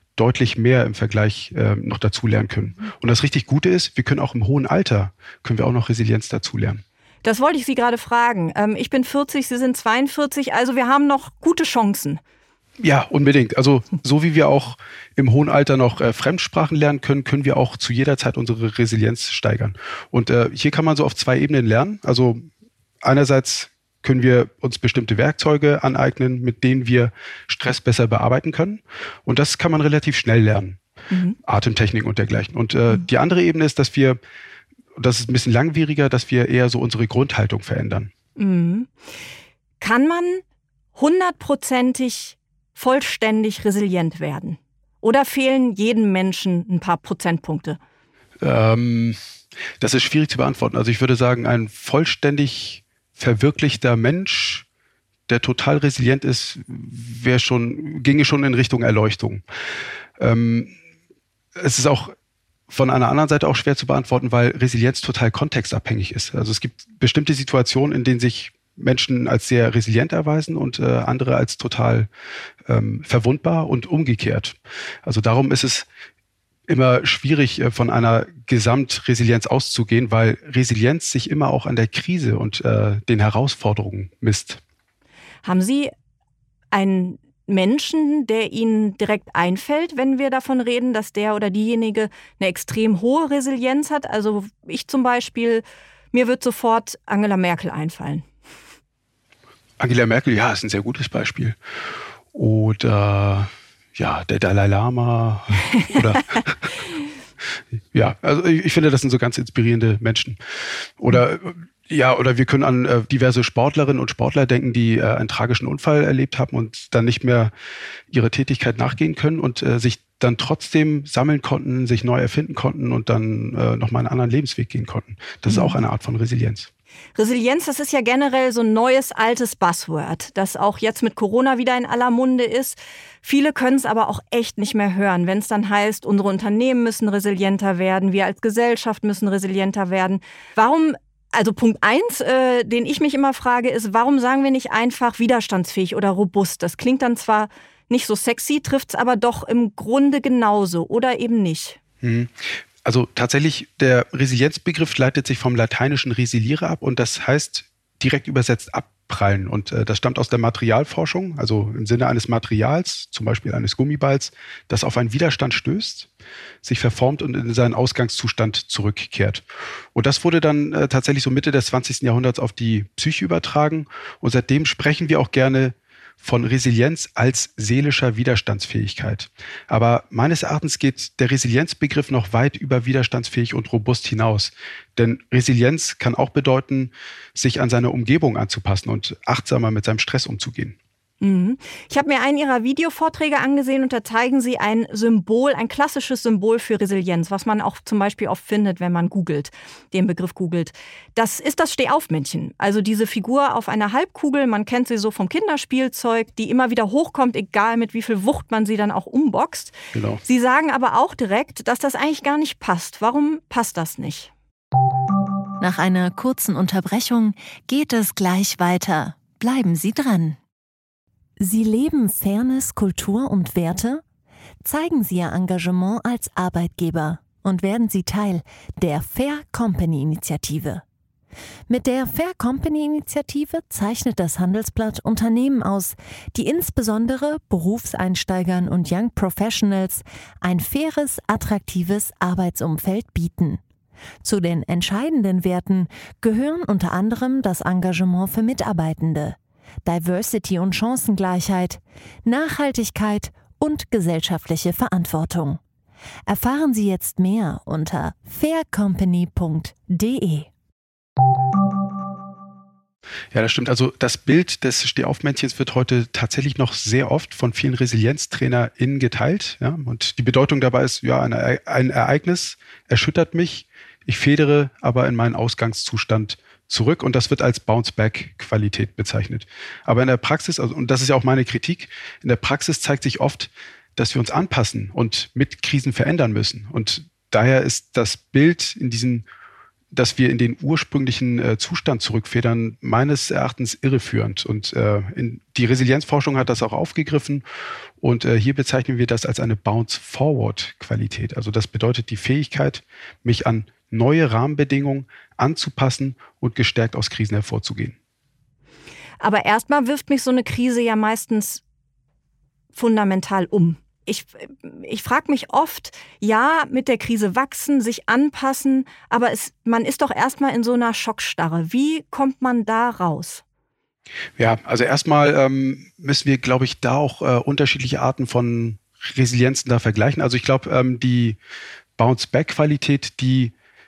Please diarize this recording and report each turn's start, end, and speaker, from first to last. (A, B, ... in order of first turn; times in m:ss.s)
0:00.2-0:06.8 A
0:07.2-0:12.2 B
0:12.8-0:22.4 A
0:23.0-0:30.8 A
0:31.1-0:31.4 B
0:31.4-0:34.2 A
0:35.0-0:38.1 A
0:38.4-0:38.9 B
0:39.8-0:40.4 B
0:41.0-0:47.8 B
0:48.4-0:49.2 A
0:49.8-0:54.6 A
0:55.3-0:59.4 A
1:00.2-1:00.7 A
1:01.6-1:02.1 A
1:02.7-1:12.1 A
1:12.6-1:15.9 A
1:16.7-1:24.6 A
1:25.4-1:25.9 B
1:26.7-1:38.2 B
1:39.8-1:41.6 A
1:42.3-1:46.7 A
1:47.9-1:57.5 A
1:58.1-2:06.7 A
2:05.5-2:05.8 B
2:07.2-2:31.8 B
2:32.0-2:46.1 A
2:46.6-3:10.8 A
3:11.2-3:34.3 B
3:29.9-3:30.2 A
3:35.6-3:40.4 C
3:41.4-3:44.0 C
3:44.6-3:50.8 C
3:51.7-4:03.6 C
4:04.2-4:15.6 C
4:16.3-4:20.5 C
4:23.3-4:49.2 A
4:49.9-4:57.4 A
4:58.0-5:08.0 A
5:09.2-5:11.6 B
5:12.7-5:23.4 B
5:24.4-5:31.4 A
5:32.0-5:33.5 A